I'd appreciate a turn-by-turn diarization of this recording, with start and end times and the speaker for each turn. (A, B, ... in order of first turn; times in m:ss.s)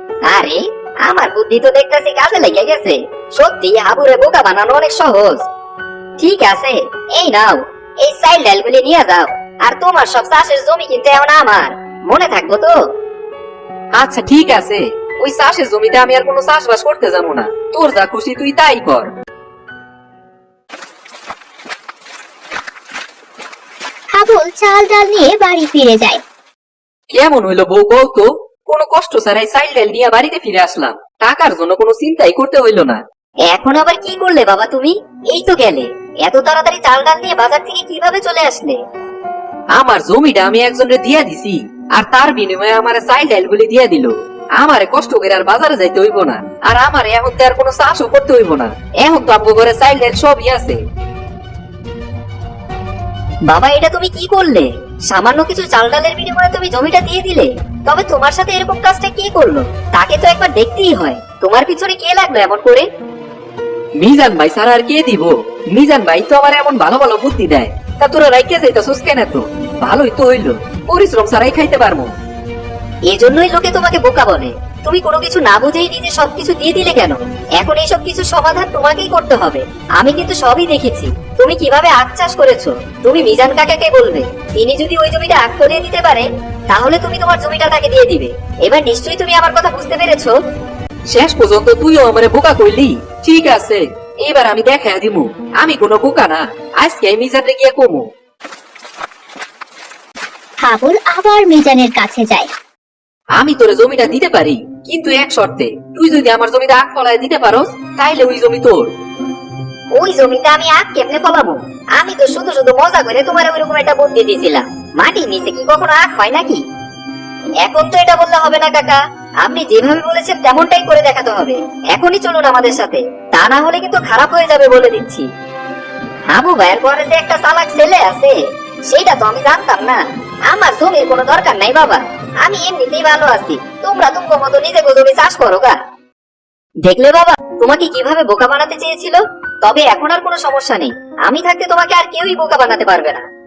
0:00.3-0:05.4 A
0:06.2-0:12.8 A
0:13.9-0:19.1 B
0:24.1-0:26.2 C
0:27.1-0:33.0 B
0:33.5-0:38.8 A
0:39.7-0:50.8 B
0:53.5-1:02.8 A
1:04.0-1:12.1 B
1:13.1-1:30.3 A
1:31.1-1:38.1 B
1:40.6-1:42.5 C
1:43.3-1:48.9 B
1:50.0-1:56.6 A
1:57.6-2:05.2 A
2:06.3-2:08.3 A
2:08.9-2:15.7 A
2:16.8-2:23.2 A